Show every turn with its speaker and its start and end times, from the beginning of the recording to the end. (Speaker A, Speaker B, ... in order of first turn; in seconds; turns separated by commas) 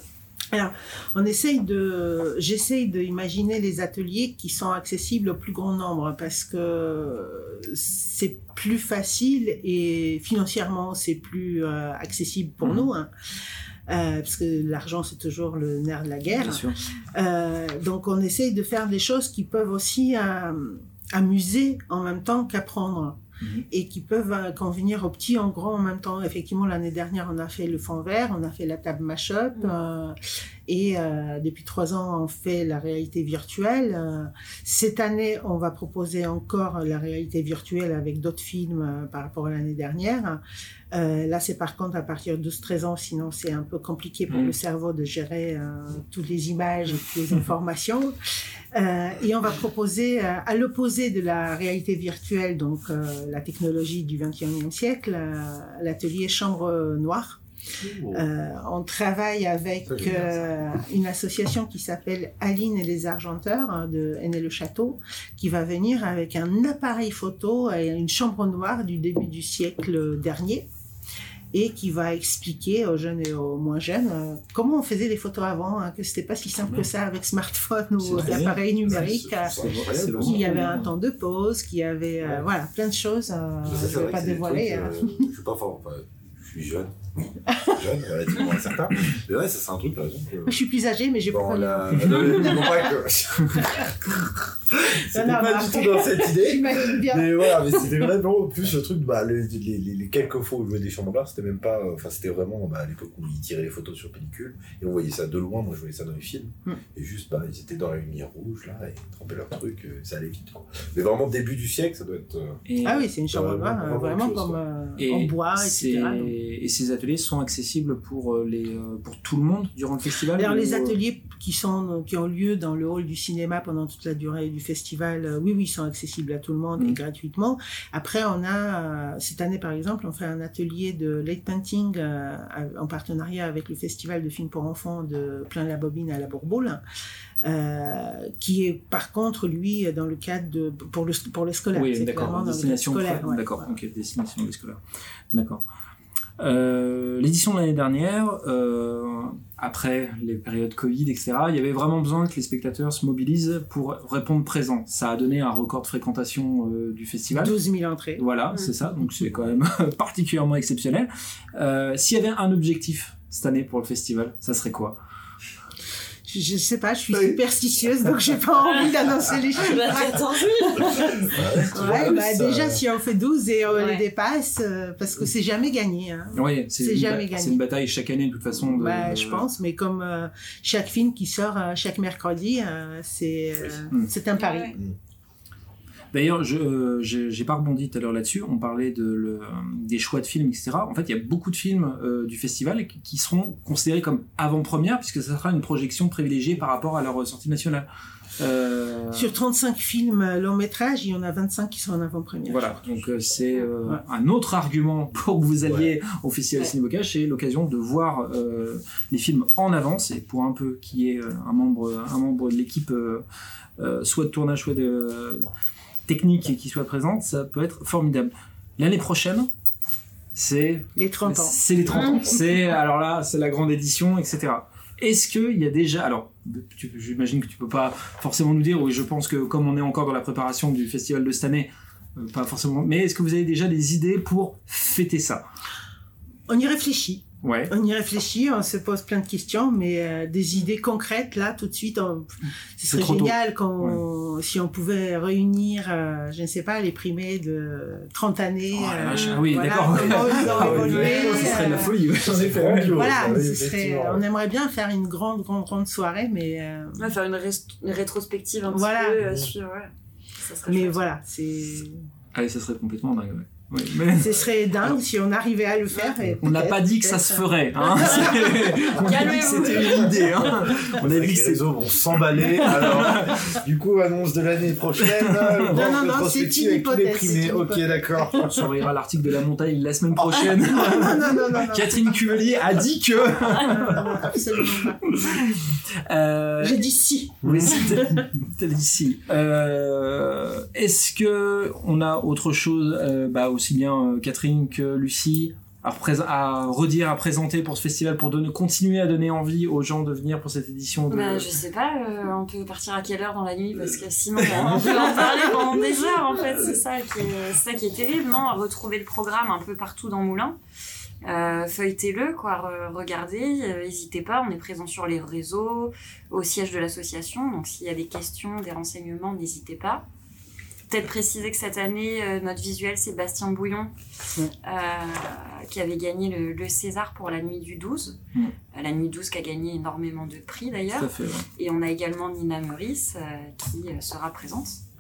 Speaker A: 0.5-13.1, Speaker B: 12.6-12.9, Speaker A: 13.9-23.2, Speaker B: 16.3-16.8, Speaker B: 23.4-23.7, Speaker A: 23.7-40.4, Speaker A: 40.9-48.1, Speaker B: 44.3-44.5, Speaker A: 48.7-57.4, Speaker C: 57.8-58.2, Speaker A: 58.1-70.7, Speaker C: 59.9-60.3, Speaker A: 71.5-79.6, Speaker B: 78.0-78.6, Speaker C: 78.2-80.6, Speaker B: 79.6-80.9, Speaker A: 80.1-85.3, Speaker C: 82.2-82.5, Speaker C: 83.6-87.0, Speaker A: 87.5-87.8, Speaker C: 87.7-90.6, Speaker A: 90.5-92.9, Speaker C: 91.3-94.0, Speaker A: 93.6-93.8, Speaker C: 94.7-112.6, Speaker A: 95.0-97.9, Speaker B: 112.7-113.1, Speaker A: 112.8-116.3, Speaker C: 113.3-114.6, Speaker B: 115.0-121.0, Speaker A: 120.4-136.8, Speaker A: 137.4-143.7, Speaker B: 141.7-144.8, Speaker B: 145.3-145.6, Speaker B: 146.4-157.6, Speaker A: 157.3-158.2, Speaker B: 158.2-165.0, Speaker A: 166.2-177.6, Speaker D: 168.6-168.9, Speaker D: 169.6-171.2, Speaker C: 171.2-172.8, Speaker D: 173.8-174.0, Speaker B: 176.3-179.5, Speaker A: 178.6-184.8, Speaker D: 184.3-184.8, Speaker B: 186.1-197.9, Speaker B: 198.4-199.3, Speaker A: 199.1-202.9, Speaker B: 202.5-213.2, Speaker C: 205.6-205.9, Speaker B: 213.8-215.5, Speaker B: 216.1-219.5, Speaker B: 220.3-235.4, Speaker A: 221.0-221.6, Speaker D: 221.9-222.2, Speaker A: 236.5-251.9, Speaker B: 237.4-237.7, Speaker B: 242.9-244.0, Speaker B: 248.7-253.1, Speaker D: 249.1-249.4, Speaker C: 249.9-254.2, Speaker D: 251.2-251.7, Speaker A: 252.8-257.1, Speaker D: 257.0-261.0, Speaker A: 258.7-259.2, Speaker A: 260.6-262.0, Speaker B: 262.3-265.0, Speaker A: 264.1-269.1, Speaker B: 266.4-273.6, Speaker D: 268.0-270.3, Speaker C: 270.4-278.7, Speaker B: 275.0-275.7, Speaker A: 275.7-278.1, Speaker B: 278.4-284.3, Speaker C: 280.2-280.6, Speaker A: 280.6-282.3, Speaker A: 283.4-285.4, Speaker B: 285.1-286.9, Speaker A: 286.6-288.2, Speaker B: 287.4-301.5, Speaker C: 287.5-287.7, Speaker D: 301.1-310.6, Speaker B: 304.4-305.8, Speaker D: 311.2-320.1, Speaker D: 320.9-323.9, Speaker D: 324.6-328.2, Speaker D: 328.7-334.8, Speaker B: 330.9-331.5